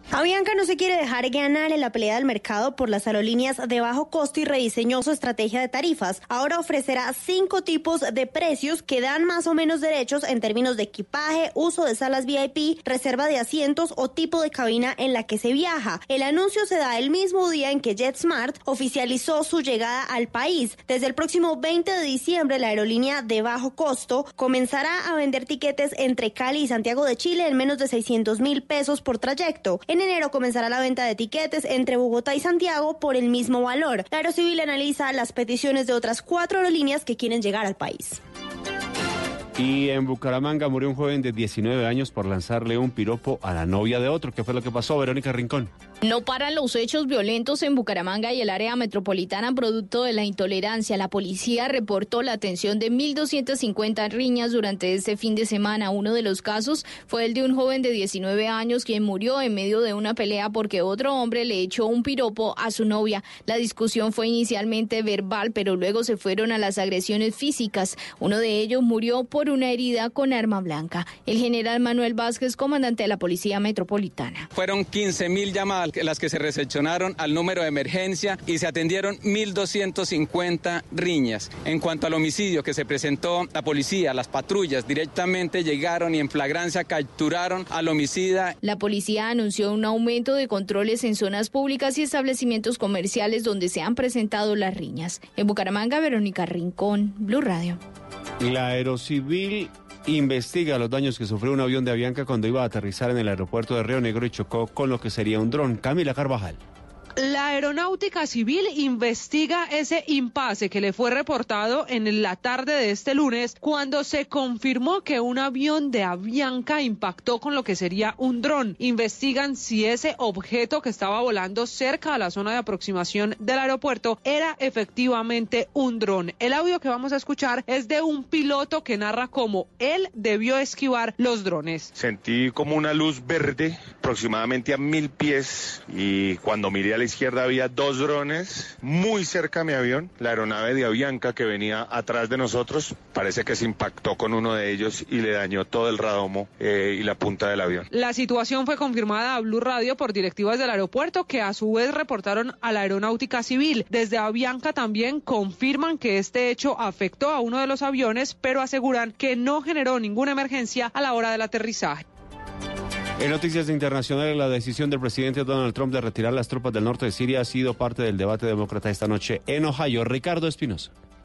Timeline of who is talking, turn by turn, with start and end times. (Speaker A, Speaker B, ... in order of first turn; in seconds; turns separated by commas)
Speaker A: 0.1-38.2, Speaker B: 39.6-45.7, Speaker C: 46.0-74.5, Speaker D: 74.5-88.6, Speaker C: 88.6-97.8, Speaker B: 98.4-106.6, Speaker E: 107.2-131.9, Speaker F: 132.0-147.9, Speaker E: 147.9-162.0, Speaker B: 163.2-170.9